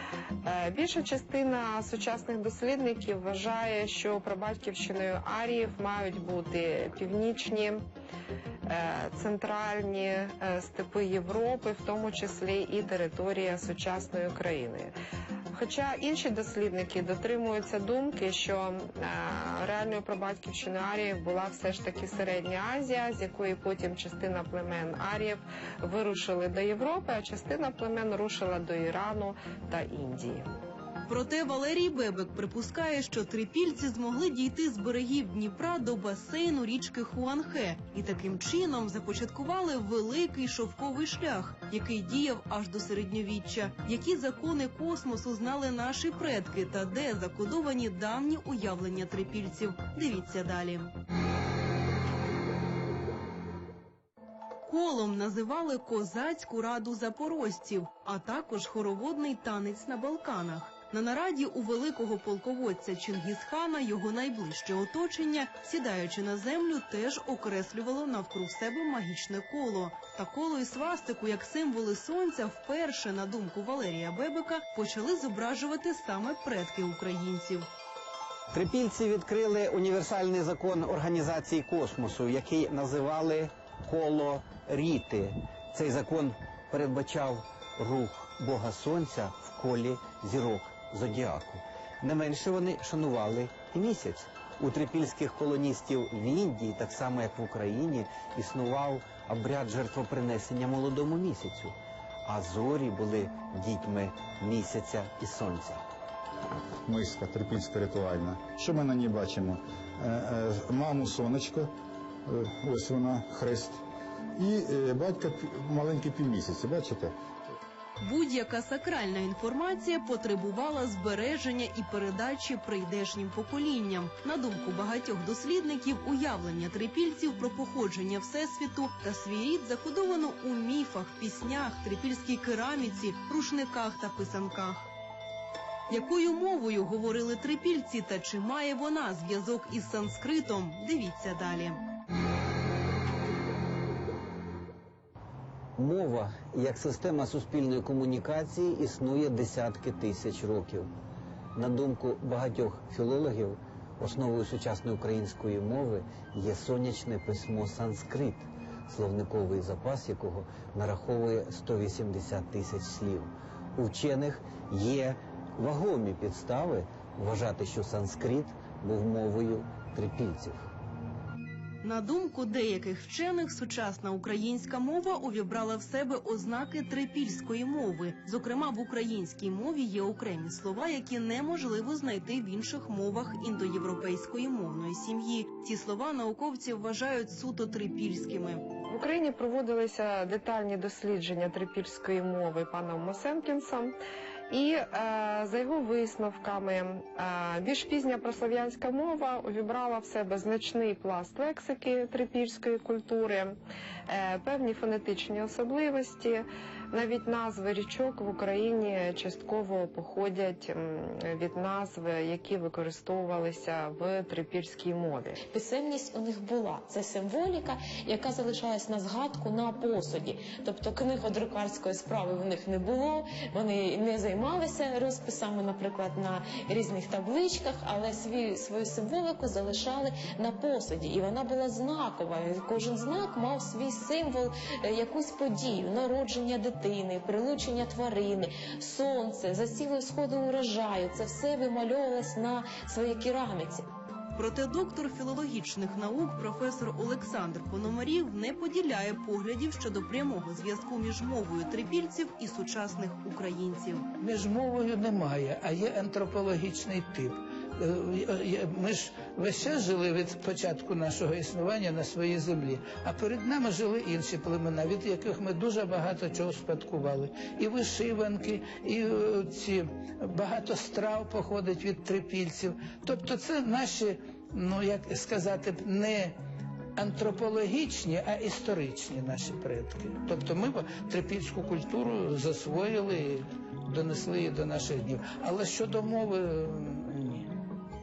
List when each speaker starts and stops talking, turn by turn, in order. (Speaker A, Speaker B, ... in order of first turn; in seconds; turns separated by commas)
Speaker A: 0.4-7.8, Speaker A: 8.7-14.9, Speaker A: 15.5-30.5, Speaker B: 31.1-50.9, Speaker B: 54.6-77.7, Speaker C: 78.5-105.8, Speaker D: 106.8-111.7, Speaker D: 112.3-113.8, Speaker D: 114.3-117.1, Speaker B: 118.0-134.9, Speaker B: 135.9-141.8, Speaker C: 145.8-150.9, Speaker C: 151.5-170.7, Speaker B: 171.8-188.6, Speaker A: 188.9-193.9, Speaker A: 194.5-203.6, Speaker A: 204.1-215.4, Speaker E: 215.5-243.8, Speaker B: 244.4-254.1, Speaker F: 254.2-276.4, Speaker F: 276.9-287.5